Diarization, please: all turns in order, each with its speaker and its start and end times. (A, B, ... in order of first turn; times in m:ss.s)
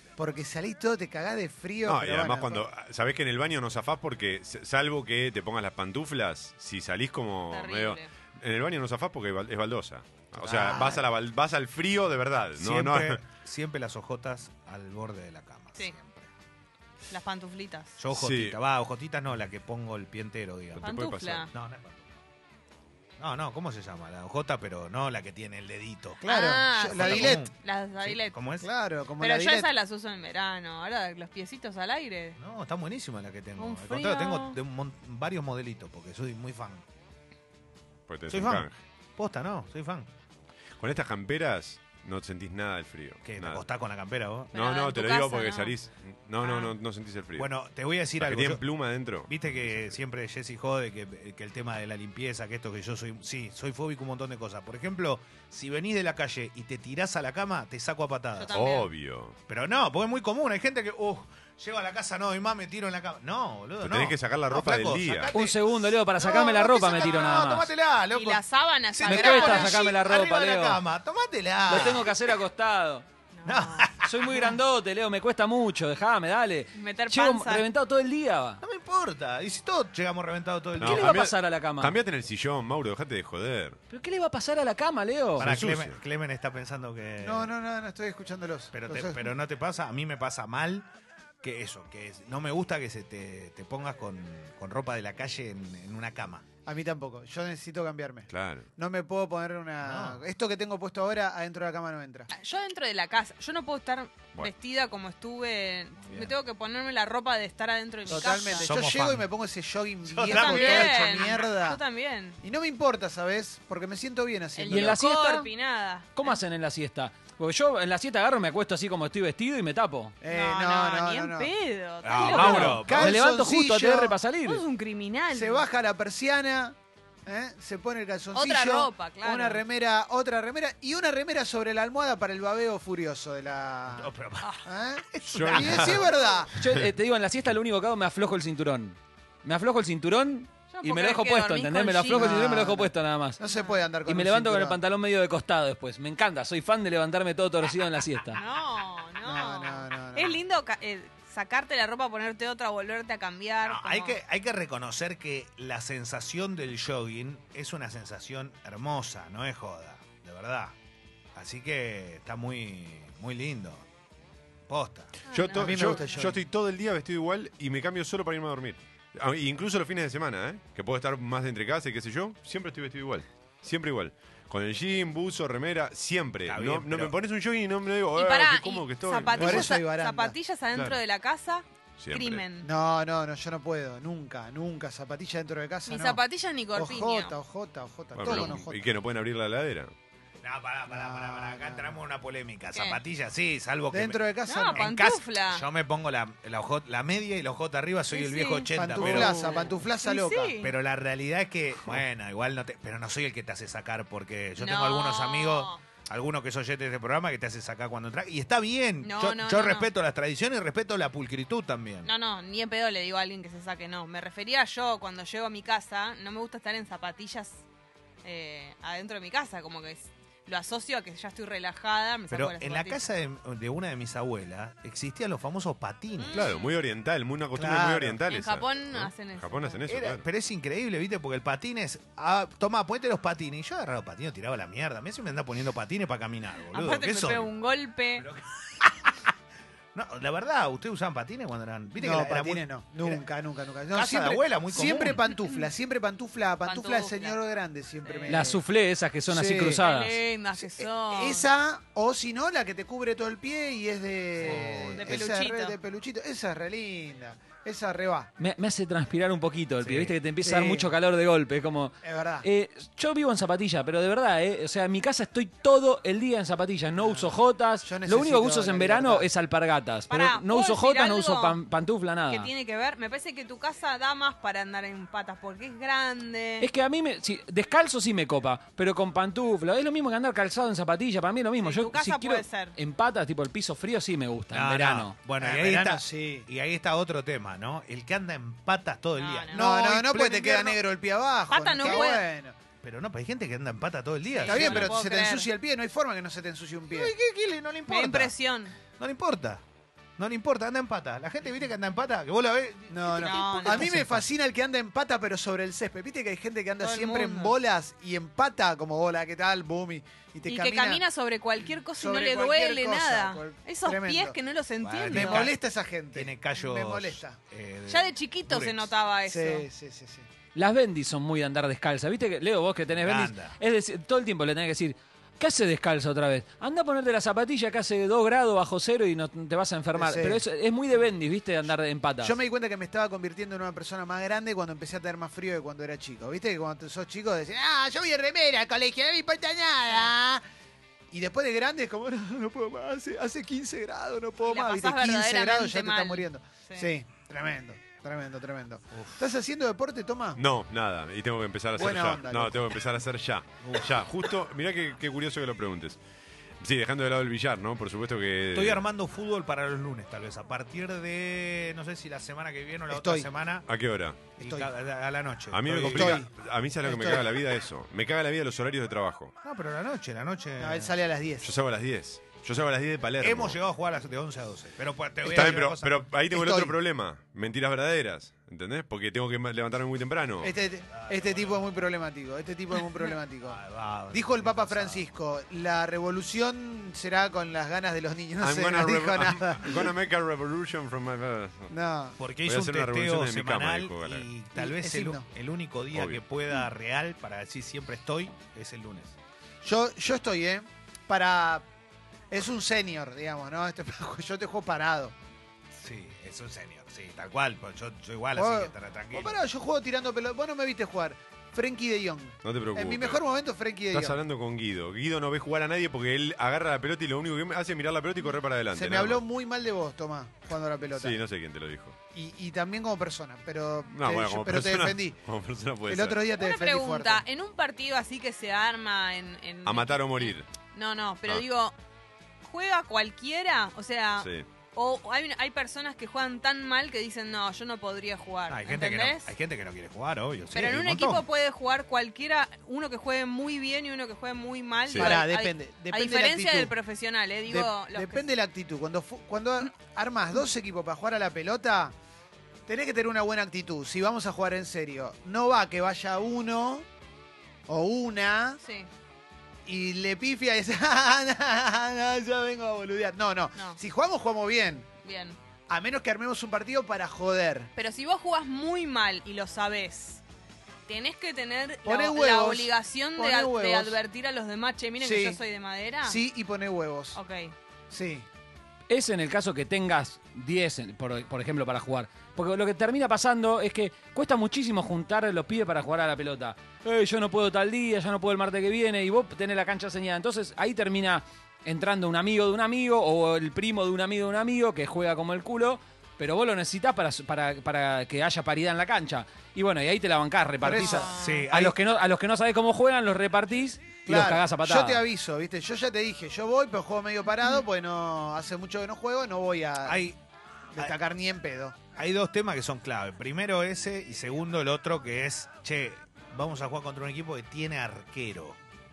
0:00.2-0:02.7 A
0:01.8-0:13.2 B
0:07.5-0:08.1 C
0:10.3-0:11.0 D
0:12.6-0:16.3 D
0:17.1-0:18.0 C
0:18.0-0:20.9 D
0:18.1-0:18.6 B
0:20.7-0:21.5 B
0:20.8-0:21.5 C
0:21.5-0:22.0 D
0:23.2-0:26.2 D
0:26.2-0:27.5 A
0:26.2-0:28.4 C
0:26.8-0:28.7 D
0:28.6-0:29.7 A
0:29.2-0:32.4 C
0:32.4-0:36.8 D
0:33.6-0:34.6 C
0:38.1-0:38.7 B
0:38.3-0:40.1 D
0:40.8-0:43.6 B
0:43.2-0:44.5 D
0:44.5-0:47.5 B
0:44.5-0:45.7 C
0:46.4-0:46.7 C
0:47.4-0:48.6 D
0:48.2-0:50.0 B
0:49.3-0:58.5 D
0:58.3-0:58.9 C
0:58.5-0:59.4 B
0:59.5-1:08.4 D
1:03.8-1:05.3 B
1:05.3-1:07.7 E
1:08.1-1:09.9 C
1:08.9-1:12.1 D
1:09.0-1:10.8 E
1:11.7-1:13.0 E
1:13.3-1:13.9 C
1:13.4-1:14.4 D
1:14.0-1:18.6 E
1:16.7-1:17.6 C
1:18.6-1:21.2 D
1:20.8-1:23.8 B
1:20.8-1:22.0 E
1:23.9-1:25.5 E
1:25.4-1:27.5 D
1:25.4-1:26.0 B
1:27.2-1:29.3 A
1:28.7-1:30.9 D
1:31.4-1:36.4 D
1:36.6-1:42.3 A
1:38.3-1:38.7 B
1:39.8-1:40.2 D
1:42.3-1:48.7 C
1:46.0-1:46.3 D
1:48.1-1:51.8 A
1:48.6-1:49.3 D
1:50.0-1:51.5 D
1:50.2-1:52.4 C
1:52.4-1:55.0 A
1:54.6-1:56.4 C
1:54.7-1:55.5 E
1:56.1-2:00.2 E
2:00.2-2:01.5 A
2:00.3-2:02.8 C
2:02.0-2:03.2 D
2:02.2-2:04.6 E
2:02.5-2:04.2 A
2:04.4-2:05.6 C
2:05.3-2:14.1 A
2:08.3-2:09.6 C
2:14.0-2:14.5 D
2:14.6-2:16.5 A
2:15.1-2:16.1 D
2:15.3-2:16.0 B
2:16.5-2:23.4 E
2:20.7-2:22.4 C
2:22.1-2:24.8 A
2:23.4-2:23.8 C
2:24.0-2:28.4 E
2:28.3-2:34.2 C
2:29.2-2:30.4 A
2:33.6-2:40.7 D
2:41.4-2:43.8 D
2:44.7-2:45.2 D
2:45.3-2:46.3 C
2:45.3-2:59.7 B
2:45.5-2:46.4 A
2:56.5-2:57.1 D
2:58.1-3:02.7 C
2:59.3-3:00.4 A
3:02.0-3:02.4 B
3:02.6-3:06.2 A
3:05.9-3:07.3 C
3:06.7-3:08.9 A
3:08.1-3:09.9 B
3:10.4-3:14.2 D
3:10.9-3:12.0 A
3:12.7-3:13.0 C
3:13.9-3:14.9 A
3:14.4-3:15.6 C
3:14.7-3:19.6 D
3:18.1-3:20.7 C
3:18.7-3:20.5 A
3:20.6-3:32.1 D
3:24.6-3:25.8 C
3:29.0-3:29.9 C
3:32.0-3:37.6 C
3:38.2-3:43.0 C
3:42.3-3:46.5 D
3:46.2-3:46.7 C
3:46.3-3:50.2 B
3:47.5-3:48.2 A
3:48.3-3:49.8 C
3:49.9-3:57.5 D
3:56.7-3:58.3 C
3:58.2-3:59.2 D
3:59.9-4:03.2 D
4:01.9-4:08.6 A
4:03.9-4:05.2 D
4:06.6-4:07.4 C
4:08.0-4:08.4 C
4:08.3-4:10.2 E
4:09.3-4:09.8 A
4:09.8-4:11.5 C
4:10.6-4:18.3 A
4:14.4-4:15.2 D
4:14.9-4:15.8 C
4:18.4-4:32.5 E
4:19.8-4:20.1 D
4:20.4-4:20.9 A
4:22.0-4:22.5 A
4:27.0-4:29.3 A
4:30.1-4:31.6 C
4:32.3-4:36.7 C
4:36.6-4:45.2 E
4:41.6-4:42.8 C
4:44.5-4:50.8 D
4:45.4-4:46.5 A
4:49.2-4:49.6 C
4:49.5-4:52.5 A
4:51.5-4:52.2 C
4:52.8-4:54.9 D
4:54.3-4:55.5 C
4:54.4-4:57.1 A
4:56.9-4:58.3 D
4:57.9-4:58.8 C
4:58.9-4:59.6 D
5:00.2-5:04.2 D
5:02.9-5:11.0 A
5:03.2-5:03.9 C
5:06.8-5:07.5 C
5:10.4-5:15.5 C
5:12.0-5:14.4 A
5:14.8-5:15.6 D
5:15.1-5:17.4 A
5:16.1-5:18.9 D
5:17.9-5:19.6 C
5:19.3-5:20.3 A
5:20.5-5:32.4 E
5:22.9-5:23.6 D
5:29.9-5:30.4 A
5:32.2-5:40.4 A
5:41.1-5:50.4 A
5:44.4-5:46.9 C
5:48.9-5:49.2 D
5:50.4-5:56.0 B
5:51.7-5:52.8 A
5:53.6-5:54.0 D
5:56.6-5:58.8 B
5:58.5-6:03.7 D
6:02.9-6:03.3 A
6:03.7-6:04.2 B
6:04.4-6:06.2 D
6:04.4-6:04.7 A
6:05.5-6:09.3 B
6:05.9-6:06.3 A
6:06.8-6:07.3 A
6:09.4-6:10.9 D
6:10.6-6:11.5 A
6:11.4-6:13.6 B
6:13.2-6:15.9 D
6:15.2-6:15.7 A
6:15.2-6:20.5 B
6:16.3-6:16.8 A
6:20.4-6:23.6 A
6:20.9-6:21.7 D
6:23.4-6:25.1 D
6:24.1-6:29.9 A
6:28.4-6:31.7 B
6:31.7-6:32.2 A
6:32.2-6:39.1 D
6:32.4-6:34.3 B
6:34.5-6:35.2 A
6:35.9-6:36.2 B
6:39.6-6:41.6 A
6:42.3-6:45.1 A
6:45.7-6:49.4 D
6:48.3-6:54.2 A
6:52.4-6:53.2 B
6:53.9-6:59.2 B
6:58.7-7:01.2 A
7:00.9-7:02.0 B
7:02.1-7:05.2 A
7:03.9-7:06.2 B
7:05.9-7:07.2 A
7:06.4-7:11.7 C
7:09.6-7:10.5 B
7:12.4-7:19.3 C
7:14.2-7:14.4 B
7:18.5-7:21.2 D
7:20.5-7:28.3 C
7:24.9-7:25.1 B
7:24.9-7:26.7 A
7:27.5-7:31.9 A
7:32.7-7:36.8 A
7:37.7-7:38.6 A
7:38.6-7:38.9 C
7:39.6-7:44.9 A
7:43.5-7:43.8 C
7:45.0-7:45.4 C
7:45.7-7:47.7 A
7:47.8-7:50.2 C
7:50.9-7:56.2 C
7:51.8-7:54.0 A
7:55.0-7:55.4 A
7:56.0-7:57.2 A
7:57.1-7:57.5 C
7:57.9-7:58.3 A
7:58.9-8:25.0 E
8:20.6-8:21.1 A
8:20.8-8:21.5 C
8:21.1-8:21.8 D
8:24.0-8:30.1 A
8:29.8-8:30.2 D
8:30.7-8:31.8 A
8:32.0-8:38.6 D